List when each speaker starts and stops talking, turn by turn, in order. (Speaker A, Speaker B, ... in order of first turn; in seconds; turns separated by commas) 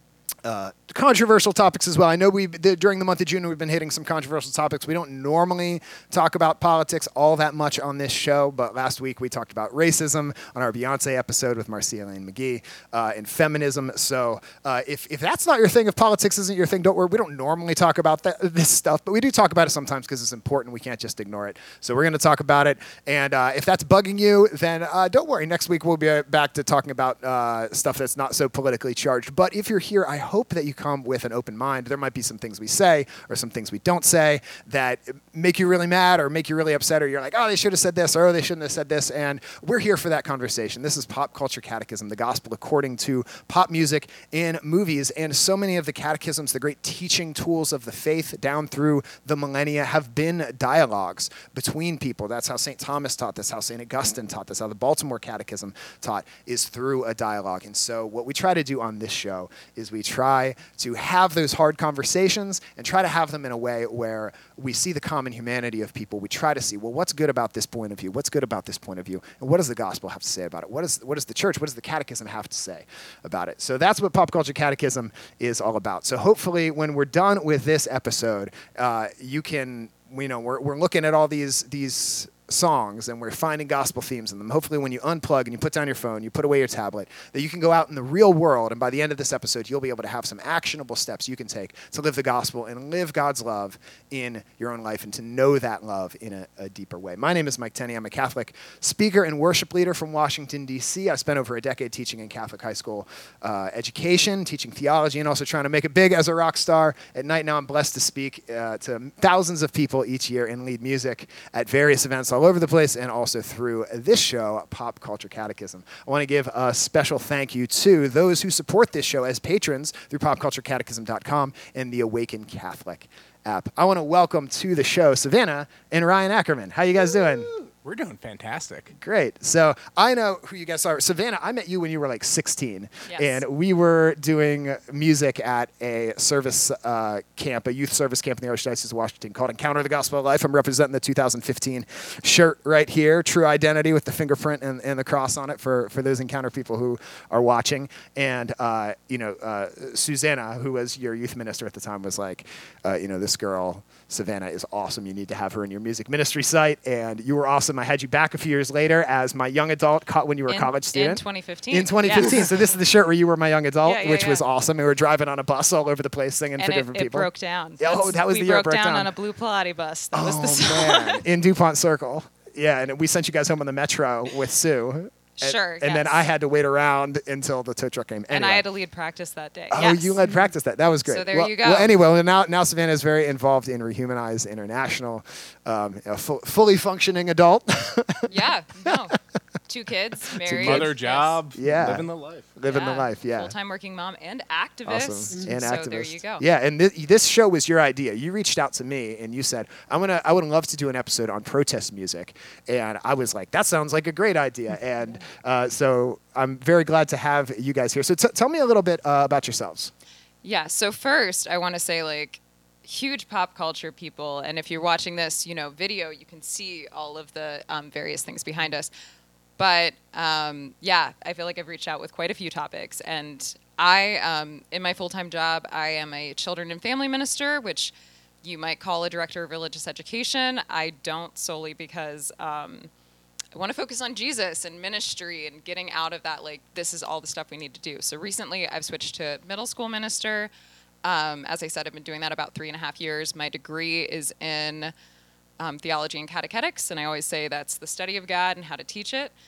Speaker A: 0.4-127.5, Speaker B: 127.2-128.9, Speaker A: 128.9-167.3, Speaker C: 133.1-133.4, Speaker C: 160.5-162.7, Speaker C: 163.8-164.4, Speaker C: 166.6-171.2, Speaker A: 167.8-169.1, Speaker A: 170.1-178.6, Speaker C: 175.4-176.2, Speaker C: 178.3-180.2, Speaker A: 179.7-189.0, Speaker C: 181.1-181.9, Speaker C: 188.3-189.2, Speaker C: 189.7-191.4, Speaker A: 190.4-190.9, Speaker B: 190.4-192.5, Speaker A: 191.6-193.5, Speaker C: 192.7-196.4, Speaker A: 194.9-209.9, Speaker C: 210.4-218.9, Speaker C: 219.6-232.9, Speaker C: 233.6-240.5, Speaker C: 241.0-244.9, Speaker C: 245.6-249.3